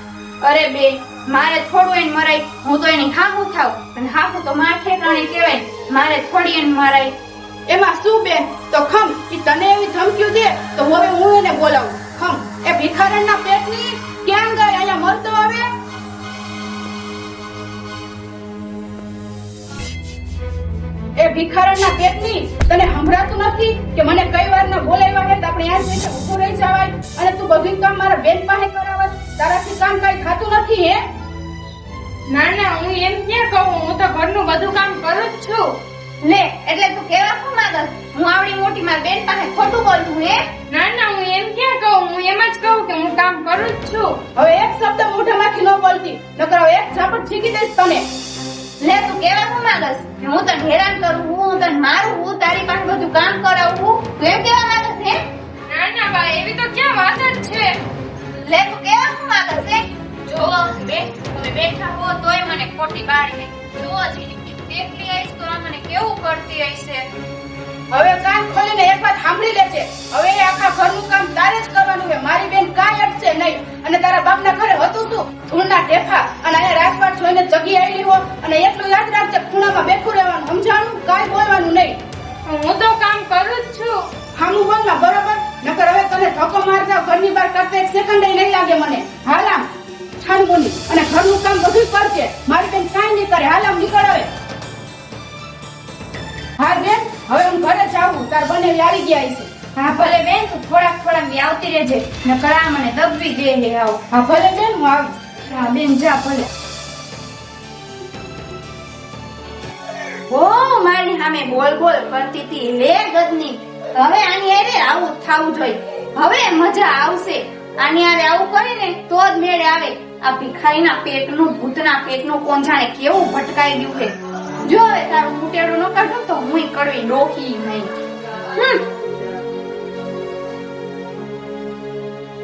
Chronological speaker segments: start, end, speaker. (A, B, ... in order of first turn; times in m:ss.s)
0:00.4-0:07.2 A
0:07.7-0:15.7 B
0:21.2-0:31.0 B
0:32.3-0:35.8 C
0:36.2-0:40.4 A
0:40.7-0:44.2 C
0:44.4-0:48.1 B
0:48.8-0:55.2 A
0:55.7-0:57.8 C
0:58.4-1:07.1 A
1:07.9-1:22.0 B
1:22.5-1:24.0 C
1:24.4-1:29.7 B
1:30.2-1:34.3 B
1:36.6-1:39.5 B
1:39.8-1:44.0 A
1:44.1-1:45.2 B
1:45.5-1:46.5 A
1:50.3-2:07.9 A
2:08.6-2:08.8 A